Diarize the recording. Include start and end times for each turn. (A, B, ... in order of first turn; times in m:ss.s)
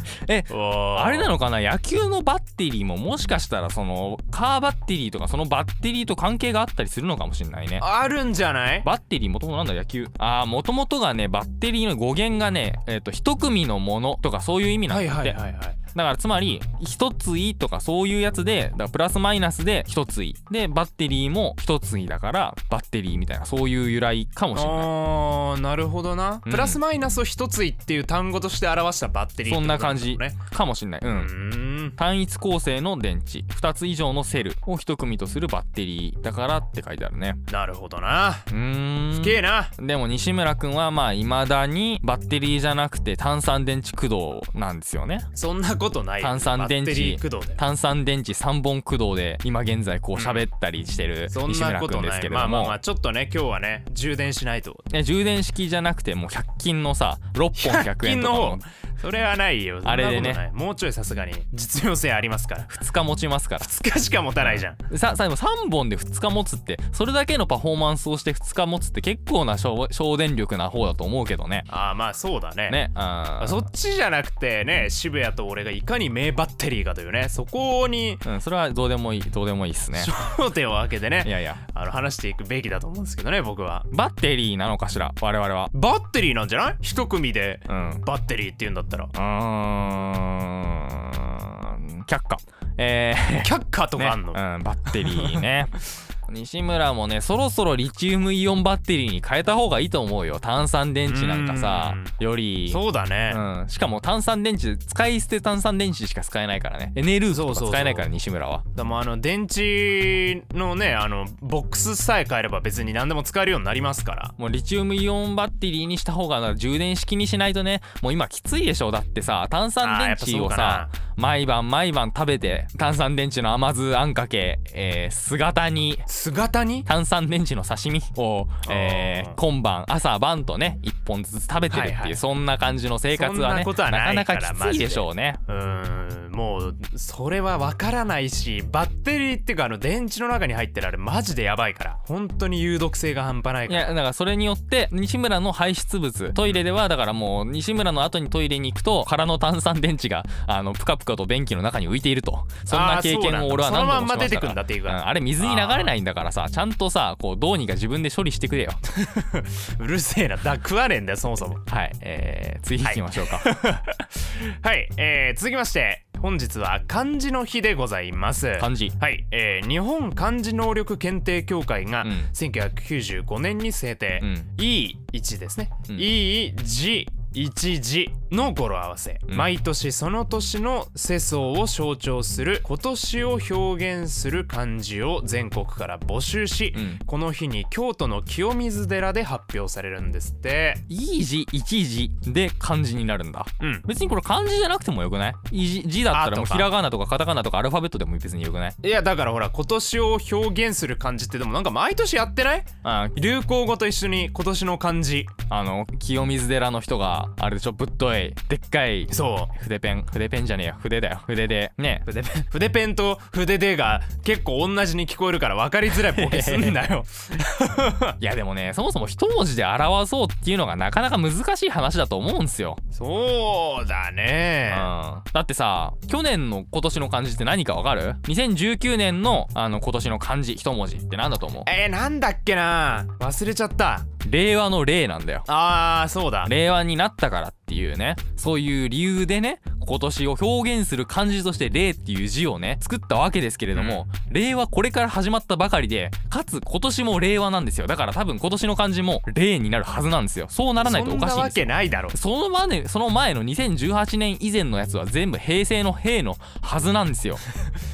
0:00.2-0:07.9 A
0:00.5-0:01.4 B
0:07.8-0:08.9 B
0:08.8-0:15.4 A
0:14.9-0:15.8 B
0:15.9-0:24.9 A
0:24.6-0:30.4 B
0:26.5-0:26.8 A
0:29.4-0:31.3 A
0:31.1-0:32.0 B
0:32.0-0:37.4 A
0:37.5-0:38.5 B
0:38.5-0:45.3 A
0:39.1-0:39.7 B
0:45.3-0:47.6 B
0:46.2-0:52.8 A
0:50.2-0:50.5 B
0:51.3-0:54.9 B
0:54.9-0:58.6 A
0:57.6-1:02.8 B
0:59.8-1:00.4 A
1:02.7-1:03.7 A
1:03.6-1:04.9 B
1:04.4-1:11.7 A
1:11.7-1:12.9 B
1:12.7-1:13.6 A
1:13.4-1:18.3 B
1:18.2-1:20.1 A
1:19.9-1:23.9 B
1:21.2-1:21.6 A
1:23.9-1:25.7 A
1:25.7-1:29.1 B
1:27.7-1:28.0 A
1:29.1-1:48.6 A
1:33.4-1:34.4 B
1:34.9-1:35.4 B
1:41.0-1:42.1 B
1:42.7-1:43.4 B
1:47.3-1:48.1 B
1:48.8-1:54.3 B
1:54.4-2:06.1 A
1:59.8-2:00.9 B
2:06.1-2:06.9 B
2:06.9-2:15.4 A
2:08.6-2:09.4 B
2:11.7-2:12.2 B
2:13.1-2:23.9 B
2:23.7-2:38.8 A
2:32.7-2:35.9 B
2:38.9-2:41.6 B
2:41.7-2:43.5 A
2:42.8-3:10.8 B
2:48.6-2:49.0 A
2:52.0-2:52.3 A
2:54.2-2:54.5 A
2:55.9-2:56.1 A
3:06.7-3:07.0 A
3:10.9-3:18.8 A
3:13.6-3:13.9 B
3:16.1-3:16.7 B
3:18.8-3:25.3 B
3:22.8-3:23.2 A
3:25.5-3:32.1 A
3:29.1-3:29.5 B
3:32.1-3:38.2 B
3:35.9-3:36.8 A
3:38.2-3:42.8 A
3:42.9-3:44.9 B
3:44.7-3:51.7 A
3:51.6-3:54.1 B
3:54.2-3:55.5 A
3:55.5-3:56.5 B
3:56.4-4:17.4 A
4:03.7-4:04.1 B
4:10.8-4:12.2 B